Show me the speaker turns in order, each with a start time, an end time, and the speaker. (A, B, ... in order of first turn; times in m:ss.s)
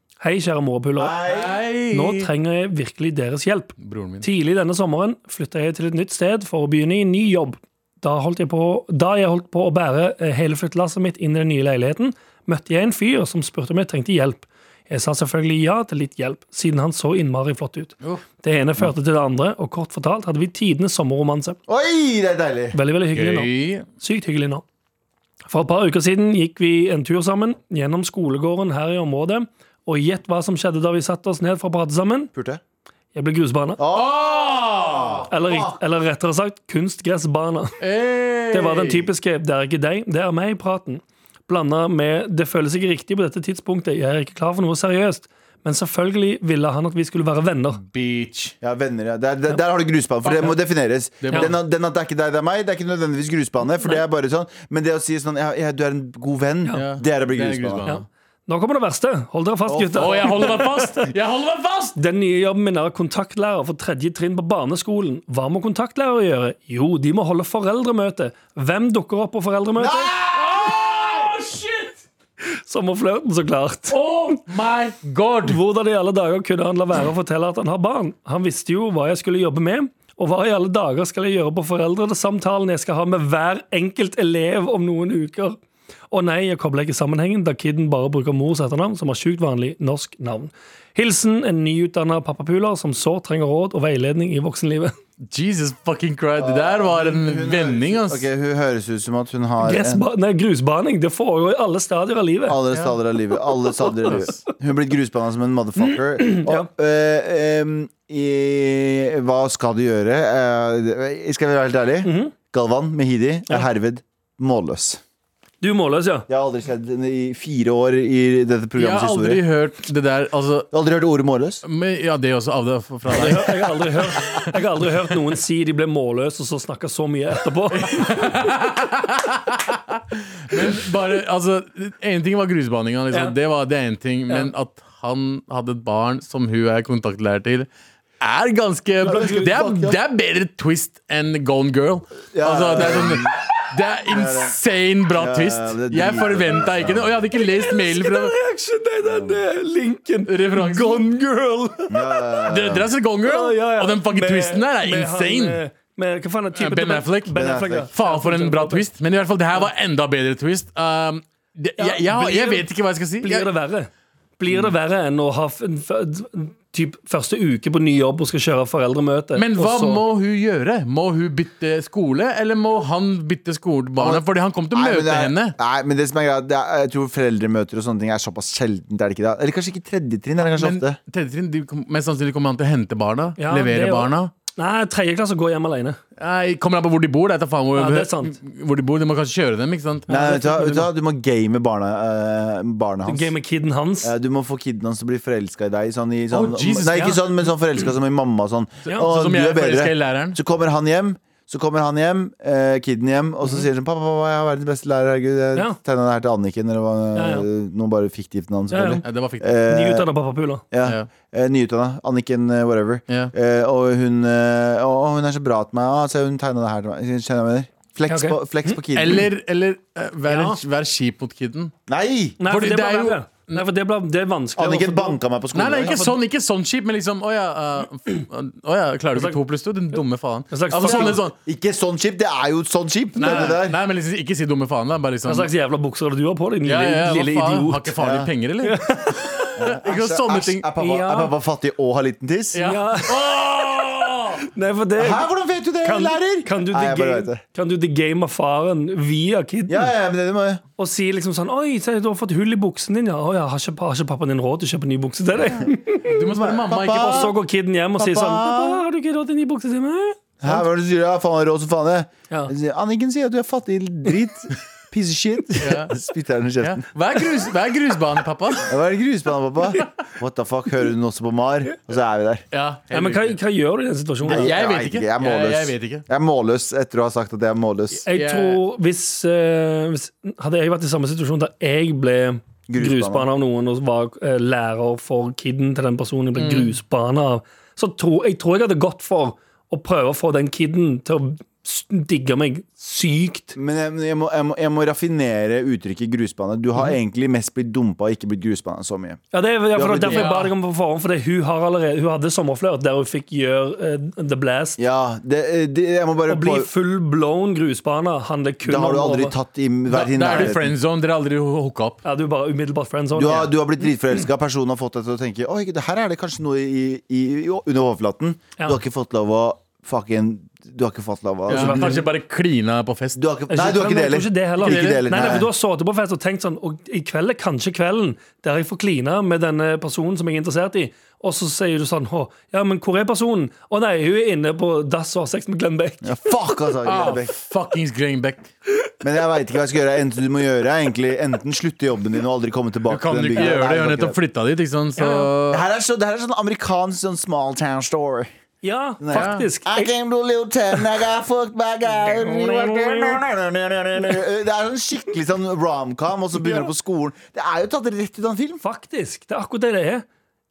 0:00.2-0:01.2 A
0:01.0-0:01.6 B
0:01.2-0:02.3 C
0:01.9-0:21.6 A
0:03.8-0:04.2 C
0:21.7-0:22.8 B
0:22.7-0:24.6 A
0:23.1-0:23.8 C
0:25.5-0:32.3 A
0:32.3-0:32.6 B
0:33.1-0:33.8 A
0:33.8-0:35.8 B
0:33.9-0:35.2 C
0:35.3-0:37.8 A
0:37.8-0:39.1 C
0:38.5-0:47.8 A
0:47.8-0:48.5 C
0:48.6-0:57.9 B
0:50.2-0:50.5 C
0:51.2-0:51.5 C
0:56.7-0:58.0 C
0:57.8-1:01.1 A
0:59.7-1:00.6 B
1:00.0-1:02.0 C
1:02.0-1:10.1 A
1:09.8-1:10.2 B
1:10.1-1:12.0 C
1:12.4-1:14.3 A
1:13.9-1:15.6 C
1:15.4-1:25.6 A
1:26.1-1:34.9 A
1:35.3-1:38.2 C
1:36.4-1:40.0 B
1:39.6-1:42.6 A
1:42.5-1:55.0 B
1:44.0-1:44.4 C
1:46.2-1:46.7 A
1:52.0-1:52.3 A
1:55.6-1:56.3 A
1:56.3-1:59.4 B
1:58.8-2:00.7 C
2:00.7-2:01.6 B
2:01.6-2:04.5 C
2:03.1-2:08.3 A
2:07.7-2:17.7 C
2:18.2-2:28.3 C
2:19.0-2:20.0 B
2:19.0-2:19.5 A
2:22.3-2:23.4 B
2:24.0-2:24.5 B
2:25.1-2:27.2 B
2:27.4-2:32.4 A
2:29.0-2:29.4 B
2:30.3-2:31.0 C
2:31.9-2:32.9 B
2:32.4-2:35.6 C
2:33.2-2:38.8 A
2:36.5-2:37.3 C
2:37.3-2:37.9 B
2:37.9-2:43.5 C
2:41.8-2:42.7 A
2:43.2-2:50.0 A
2:49.4-2:55.5 C
2:54.0-3:01.0 B
3:00.4-3:04.3 C
3:03.4-3:06.0 A
3:06.2-3:10.1 C
3:07.7-3:08.4 A
3:10.1-3:10.9 A
3:10.1-3:13.3 B
3:13.1-3:14.1 A
3:14.0-3:30.1 B
3:16.3-3:17.3 C
3:19.0-3:20.4 C
3:27.1-3:27.4 A
3:28.7-3:29.0 A
3:29.0-3:29.5 C
3:29.6-3:30.6 A
3:30.7-3:39.3 B
3:38.1-3:38.8 A
3:38.9-3:41.7 C
3:40.3-3:40.6 A
3:41.9-3:42.4 B
3:42.4-3:45.2 A
3:42.5-3:43.6 C
3:44.6-3:46.0 B
3:45.5-3:51.3 C
3:45.8-3:46.2 A
3:49.1-3:49.4 A
3:50.5-3:51.2 A
3:50.8-3:53.8 B
3:53.2-3:55.5 C
3:53.2-3:53.5 A
3:55.2-3:57.9 A
3:56.6-4:00.7 C
3:58.0-3:58.3 B
3:58.6-3:59.5 A
3:59.6-4:02.6 B
4:00.8-4:01.3 A
4:02.5-4:04.4 C
4:02.6-4:03.4 A
4:04.4-4:05.3 A
4:05.0-4:07.4 B
4:05.8-4:09.9 A
4:09.7-4:10.6 B
4:10.8-4:16.2 A
4:16.0-4:17.3 C
4:16.2-4:17.3 B
4:16.9-4:20.6 A
4:18.0-4:18.8 B
4:20.4-4:26.8 B
4:25.6-4:25.9 C
4:26.6-4:28.7 C
4:28.6-4:32.4 B
4:32.5-4:33.4 C
4:32.9-4:34.5 A
4:34.2-4:36.0 C
4:34.2-4:38.0 B
4:38.0-4:53.6 A
4:38.1-4:38.6 C
4:42.7-4:43.3 B
4:46.4-4:46.7 C
4:53.5-4:59.2 B
4:59.3-5:04.8 A
4:59.7-5:00.3 B
5:00.1-5:00.5 C
5:04.8-5:06.7 B
5:06.3-5:09.3 A
5:08.6-5:10.7 B
5:09.9-5:12.0 C
5:12.0-5:13.6 A
5:13.1-5:22.0 B
5:21.5-5:23.2 C
5:21.5-5:22.0 A
5:23.2-5:25.5 B
5:23.5-5:36.2 A
5:24.6-5:25.0 C
5:36.0-5:37.3 B
5:36.8-5:38.5 C
5:39.0-5:44.2 B
5:42.9-5:45.6 C
5:45.0-5:45.3 A
5:45.5-5:48.3 B
5:48.6-5:49.9 A
5:49.0-5:58.6 B
5:49.1-5:49.4 C
5:52.0-5:53.2 A
5:58.6-6:00.0 A